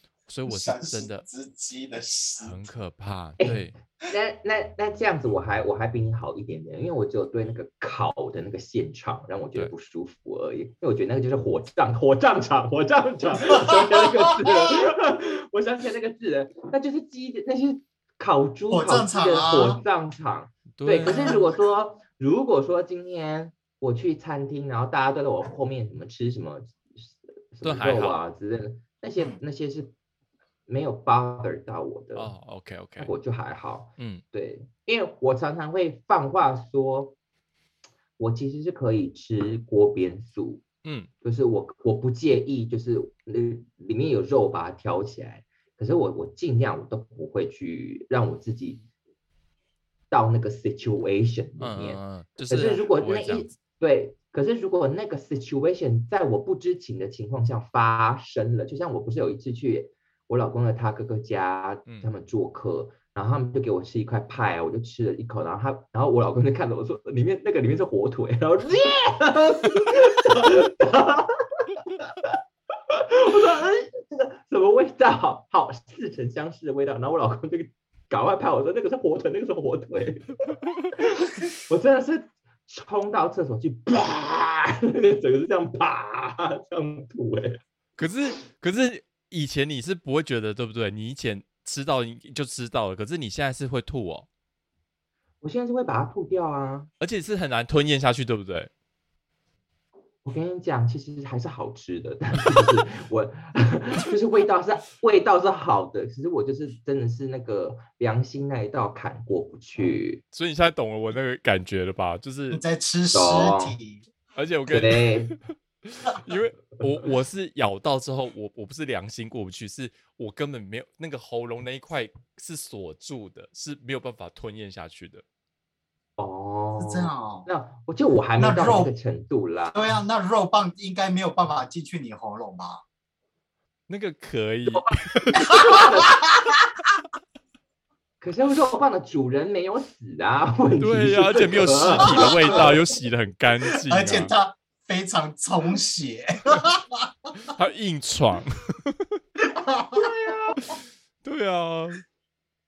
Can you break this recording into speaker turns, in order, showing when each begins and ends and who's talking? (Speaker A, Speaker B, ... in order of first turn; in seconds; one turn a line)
Speaker A: 0.3-1.2
Speaker B: 0.5-2.7
Speaker A: 2.4-3.7
Speaker C: 3.4-29.9
Speaker B: 18.7-19.8
Speaker A: 20.8-21.4
Speaker B: 21.0-21.6
Speaker A: 27.6-28.2
Speaker C: 30.7-32.3
Speaker A: 32.1-33.1
Speaker C: 33.0-37.1
Speaker C: 38.2-40.6
Speaker A: 40.8-41.1
Speaker C: 41.2-48.8
Speaker C: 50.1-72.3
Speaker A: 51.6-53.5
Speaker C: 72.9-87.6
Speaker A: 88.0-94.3
Speaker C: 95.4-96.9
Speaker A: 97.0-98.7
Speaker C: 100.2-110.2
Speaker A: 110.3-112.6
Speaker B: 112.5-114.0
Speaker C: 113.1-113.8
Speaker A: 114.3-125.2
Speaker C: 114.7-115.4
Speaker C: 126.2-129.9
Speaker B: 126.8-127.5
Speaker B: 128.4-128.9
Speaker B: 129.7-132.8
Speaker A: 133.9-136.0
Speaker C: 134.7-136.2
Speaker B: 135.4-135.8
Speaker C: 138.2-142.7
Speaker A: 140.8-144.3
Speaker B: 142.0-142.8
Speaker B: 143.7-147.3
Speaker A: 147.5-149.0
Speaker B: 149.7-150.1
Speaker C: 149.9-150.6
Speaker A: 150.6-152.0